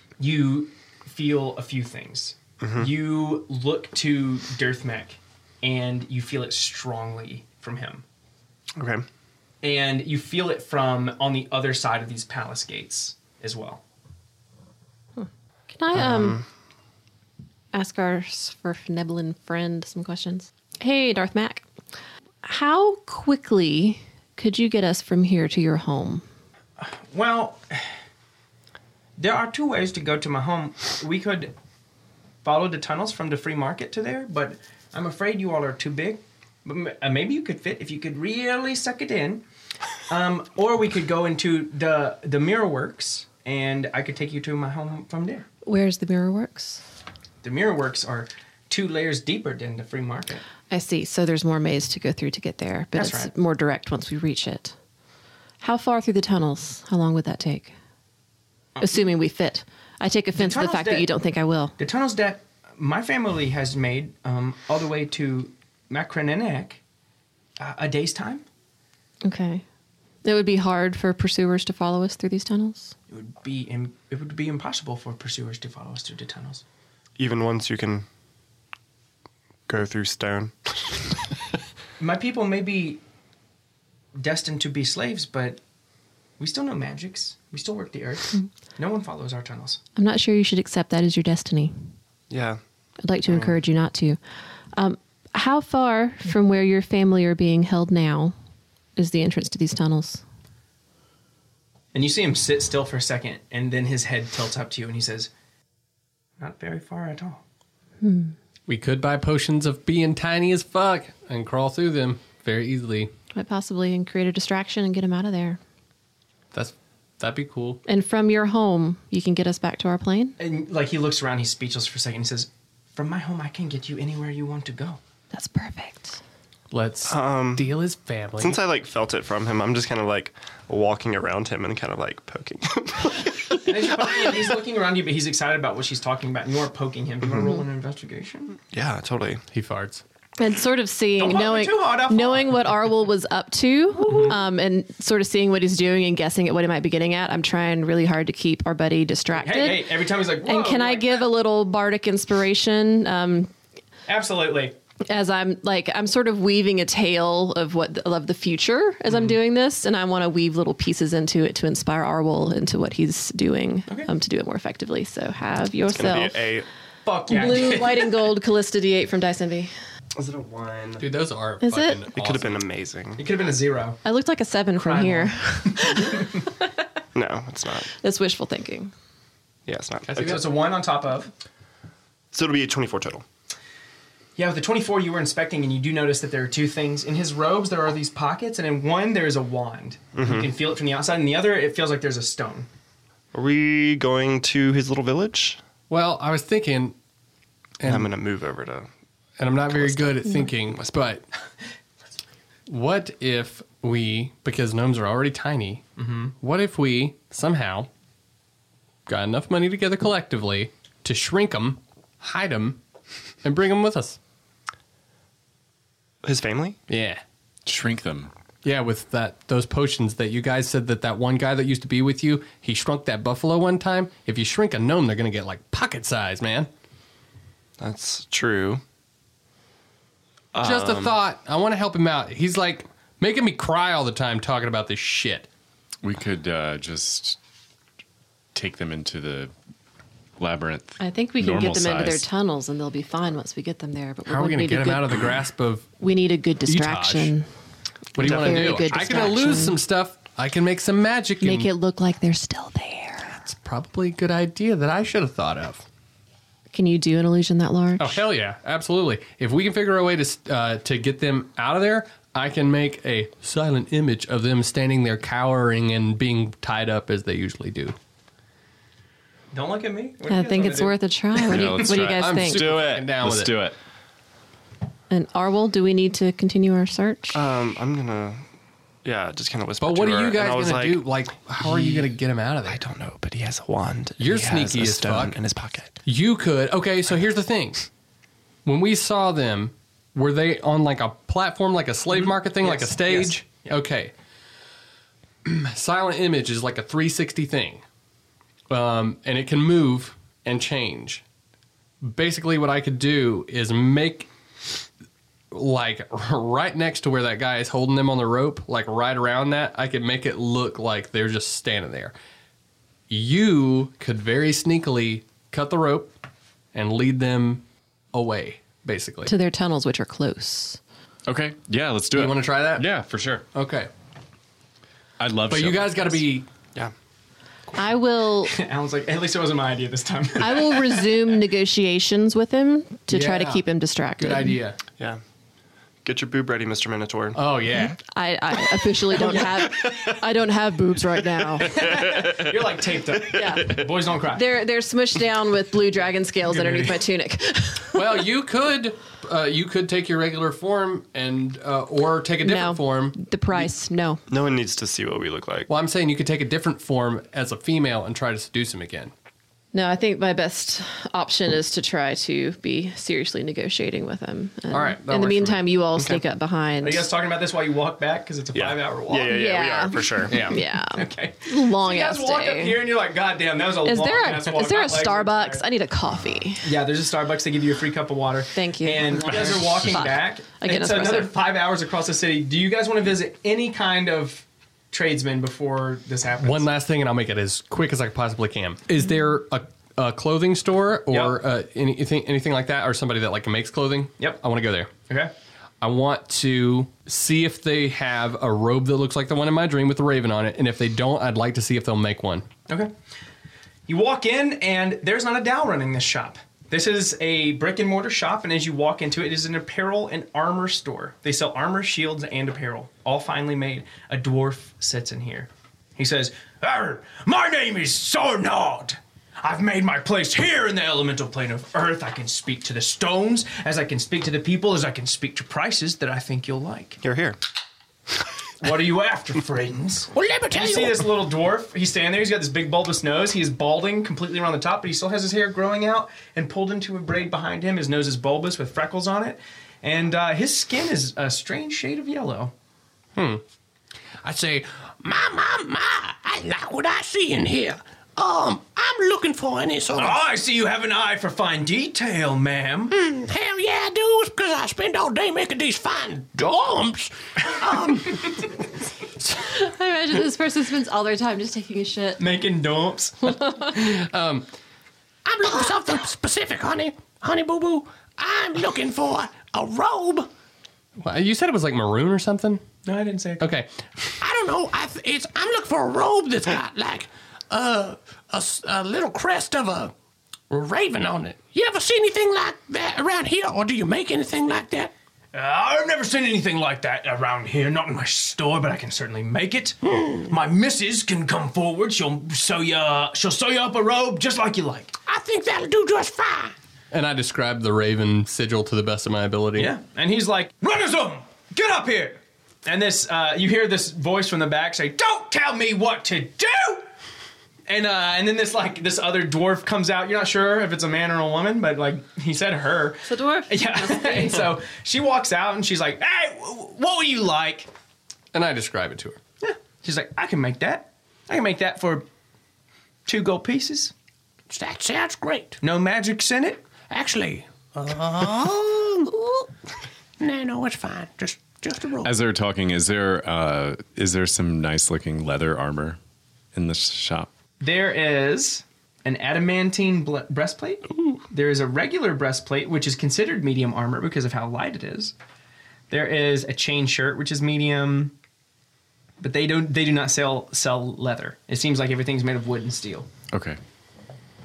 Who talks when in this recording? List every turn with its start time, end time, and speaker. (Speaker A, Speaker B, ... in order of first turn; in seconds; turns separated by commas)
Speaker A: 0.2-8.0, Speaker B: 2.6-2.9, Speaker B: 8.8-9.0, Speaker A: 9.6-13.8, Speaker C: 15.2-16.4, Speaker B: 15.9-16.4, Speaker C: 17.7-21.6, Speaker C: 22.4-26.2, Speaker A: 26.8-27.9, Speaker A: 29.2-31.5, Speaker A: 32.4-39.4, Speaker A: 40.1-45.5, Speaker C: 45.6-46.8, Speaker A: 47.4-50.4, Speaker C: 50.7-54.7, Speaker A: 52.9-53.3, Speaker C: 55.6-57.7, Speaker C: 58.8-61.8, Speaker A: 60.3-61.1, Speaker A: 61.8-66.8, Speaker A: 67.6-68.4, Speaker C: 69.2-69.6, Speaker C: 70.2-72.9, Speaker A: 73.1-76.6, Speaker B: 77.2-78.0, Speaker B: 79.7-81.1, Speaker A: 82.0-83.0, Speaker A: 84.1-85.6, Speaker A: 86.4-89.8, Speaker C: 90.0-91.7, Speaker B: 92.3-92.6, Speaker C: 93.0-94.2, Speaker B: 93.2-93.6, Speaker C: 94.8-98.3, Speaker C: 99.0-100.2, Speaker A: 101.9-105.3, Speaker A: 106.4-107.4, Speaker C: 108.0-108.3, Speaker D: 108.7-113.1, Speaker C: 113.3-115.6, Speaker D: 116.5-117.8, Speaker C: 117.9-120.4, Speaker A: 120.4-125.0, Speaker C: 125.3-126.2, Speaker D: 126.7-128.6, Speaker B: 127.1-127.7, Speaker B: 128.4-134.5, Speaker A: 133.6-138.6, Speaker B: 138.7-139.4, Speaker D: 139.5-140.0, Speaker C: 140.4-153.5, Speaker A: 141.2-142.7, Speaker A: 144.0-144.4, Speaker A: 149.3-151.3, Speaker A: 154.1-154.7, Speaker C: 155.1-166.4, Speaker B: 165.9-166.7, Speaker A: 167.0-168.1, Speaker C: 167.3-169.7, Speaker B: 170.2-171.0, Speaker D: 171.0-172.6, Speaker C: 171.6-172.1, Speaker B: 172.1-173.2, Speaker A: 173.2-174.0, Speaker C: 174.0-176.4, Speaker A: 174.8-176.3, Speaker B: 177.1-177.9, Speaker C: 178.0-178.9, Speaker B: 179.7-180.4, Speaker D: 180.1-180.4, Speaker A: 180.2-181.3, Speaker B: 182.3-183.2, Speaker A: 184.4-192.7, Speaker B: 190.1-190.5, Speaker B: 193.3-195.6, Speaker D: 195.9-196.9, Speaker D: 197.8-198.2, Speaker B: 197.8-198.9, Speaker D: 199.4-201.2, Speaker B: 199.7-201.1, Speaker D: 202.7-205.8, Speaker A: 206.0-206.3, Speaker D: 206.4-207.9, Speaker D: 209.1-212.8, Speaker D: 213.4-214.2, Speaker B: 216.2-216.8, Speaker D: 216.9-217.2, Speaker E: 217.7-218.3, Speaker D: 218.6-226.7, Speaker B: 227.8-228.8, Speaker B: 230.5-231.2, Speaker D: 230.6-235.5, Speaker E: 236.0-237.4, Speaker E: 238.5-239.5, Speaker E: 240.4-242.2, Speaker C: 241.0-245.3, Speaker D: 244.2-245.9, Speaker C: 246.0-247.5, Speaker D: 246.7-247.3, Speaker D: 248.1-251.7, Speaker C: 248.2-249.8, Speaker C: 251.4-253.4, Speaker D: 253.4-255.8, Speaker C: 256.7-258.2, Speaker D: 258.0-267.9, Speaker A: 269.5-271.0, Speaker C: 270.3-272.7, Speaker E: 271.5-273.8, Speaker D: 272.0-273.6, Speaker C: 275.1-277.4, Speaker B: 277.3-278.4, Speaker B: 279.0-281.1, Speaker D: 279.8-282.8, Speaker B: 281.6-282.1, Speaker B: 282.6-286.0, Speaker D: 284.2-285.4, Speaker D: 286.0-287.8, Speaker D: 288.6-294.1, Speaker A: 292.1-293.7, Speaker D: 295.4-297.8, Speaker D: 298.7-301.2, Speaker D: 302.0-304.3, Speaker D: 305.5-312.1, Speaker D: 313.1-316.1, Speaker D: 316.7-319.3, Speaker C: 319.2-320.8, Speaker E: 321.2-323.4, Speaker D: 322.1-322.9, Speaker D: 323.5-323.9, Speaker E: 325.2-326.2, Speaker D: 325.5-326.5, Speaker C: 327.7-328.5, Speaker A: 328.4-331.1, Speaker C: 330.4-334.6, Speaker D: 333.1-333.6, Speaker D: 334.2-334.8, Speaker B: 336.0-337.4, Speaker D: 337.3-338.0, Speaker C: 338.0-341.8, Speaker A: 339.1-339.7, Speaker B: 339.4-340.1, Speaker B: 341.6-342.6, Speaker A: 341.6-344.5, Speaker C: 343.3-343.8, Speaker B: 343.4-343.8, Speaker C: 344.3-348.2, Speaker A: 346.4-347.0, Speaker D: 347.9-353.2, Speaker C: 352.4-354.2, Speaker B: 354.3-355.7, Speaker D: 355.7-359.1, Speaker C: 359.7-367.1, Speaker D: 364.7-365.7, Speaker B: 365.9-366.2, Speaker A: 366.8-369.4, Speaker B: 368.5-370.4, Speaker C: 369.3-372.9, Speaker D: 370.3-370.6, Speaker A: 370.9-375.7, Speaker C: 373.8-376.7, Speaker A: 376.6-386.7, Speaker C: 378.5-381.3, Speaker D: 386.4-394.9, Speaker A: 391.1-391.4, Speaker D: 395.8-402.4, Speaker A: 403.9-427.0, Speaker B: 427.0-427.4, Speaker A: 428.6-442.5, Speaker F: 430.1-431.1, Speaker D: 443.1-443.4, Speaker F: 444.2-450.2, Speaker A: 449.9-452.9, Speaker F: 452.9-458.4, Speaker C: 459.4-462.2, Speaker A: 462.2-463.4, Speaker D: 463.4-464.5, Speaker F: 465.2-470.3, Speaker D: 471.0-472.6, Speaker A: 472.8-473.5, Speaker D: 473.4-473.7, Speaker F: 474.2-479.9, Speaker F: 480.5-484.9, Speaker A: 485.3-494.9, Speaker F: 490.0-490.3, Speaker F: 495.1-496.5, Speaker D: 496.9-499.7, Speaker A: 499.6-506.9, Speaker A: 507.7-517.7, Speaker C: 513.0-514.5, Speaker D: 518.3-519.2, Speaker A: 519.4-522.0, Speaker A: 523.0-523.9, Speaker F: 524.5-525.6, Speaker A: 525.6-526.6, Speaker F: 526.9-529.5, Speaker F: 530.2-532.1, Speaker E: 532.0-536.0, Speaker E: 536.5-537.3, Speaker A: 537.6-545.1, Speaker A: 545.9-548.1, Speaker A: 549.2-553.1, Speaker E: 553.3-553.6